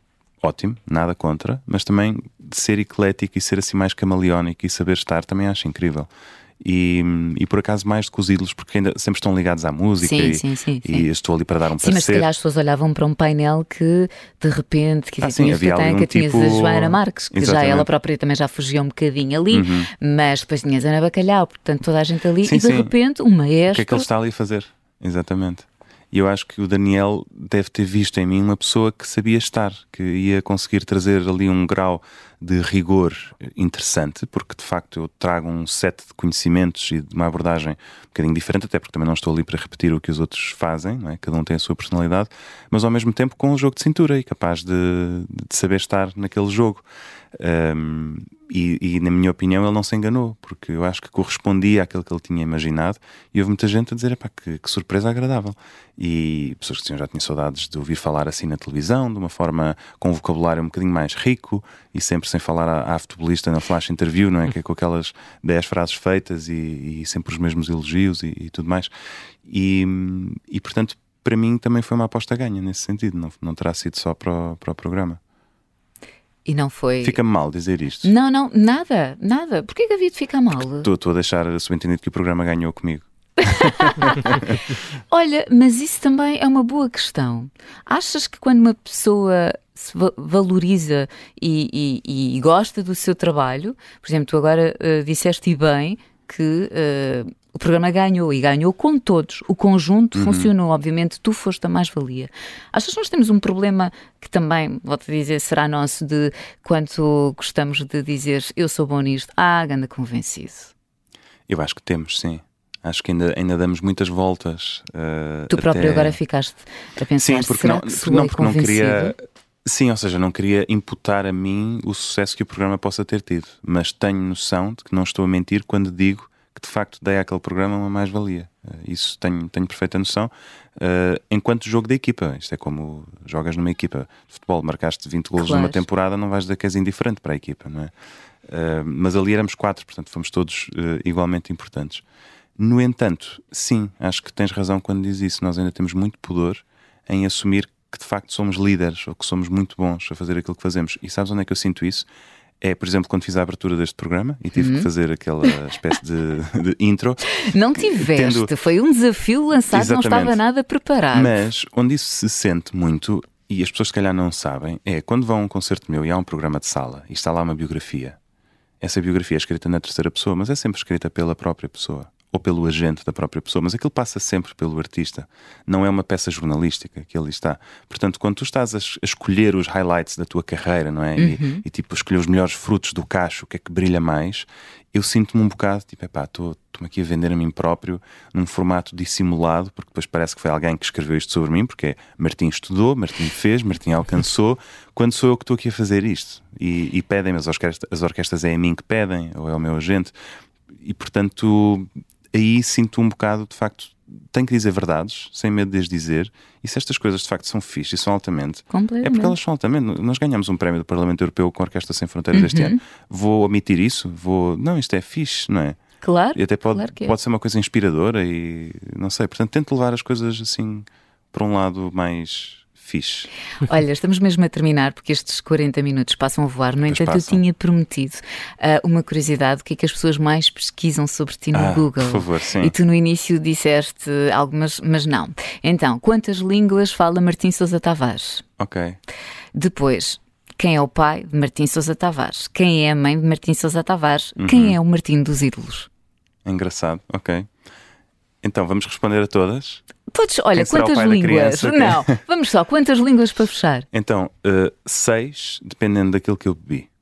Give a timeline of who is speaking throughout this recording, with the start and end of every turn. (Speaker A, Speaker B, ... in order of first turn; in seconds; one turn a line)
Speaker A: 0.4-6.1
Speaker A: 6.6-12.3
Speaker B: 10.0-11.1
Speaker B: 11.8-24.1
Speaker A: 15.2-17.9
Speaker A: 19.5-19.9
Speaker A: 22.4-22.9
Speaker A: 23.7-68.9
Speaker A: 69.5-75.2
Speaker B: 76.5-77.2
Speaker A: 77.0-78.1
Speaker B: 78.0-80.9
Speaker A: 80.8-84.6
Speaker B: 83.4-84.3
Speaker B: 85.1-110.7
Speaker A: 100.2-100.5
Speaker A: 111.5-116.2
Speaker B: 115.5-119.2
Speaker A: 117.2-137.9
Speaker B: 135.3-135.8
Speaker A: 138.4-142.0
Speaker A: 142.6-152.1
Speaker A: 152.6-158.5
Speaker B: 154.6-154.9
Speaker B: 157.3-161.4
Speaker A: 159.7-160.4
Speaker A: 161.1-168.2
Speaker A: 168.8-200.1
Speaker B: 181.2-181.7
Speaker A: 200.8-215.8
Speaker B: 208.7-209.4
Speaker B: 212.3-212.8
Speaker B: 216.0-217.2
Speaker A: 216.3-223.3
Speaker B: 223.6-238.4
Speaker A: 226.9-227.4
Speaker A: 231.5-232.7
Speaker A: 238.6-239.0
Speaker B: 239.6-245.9
Speaker A: 244.4-244.8
Speaker A: 246.4-247.5
Speaker A: 248.4-249.8
Speaker B: 250.1-253.9
Speaker A: 250.6-252.2
Speaker A: 253.9-256.9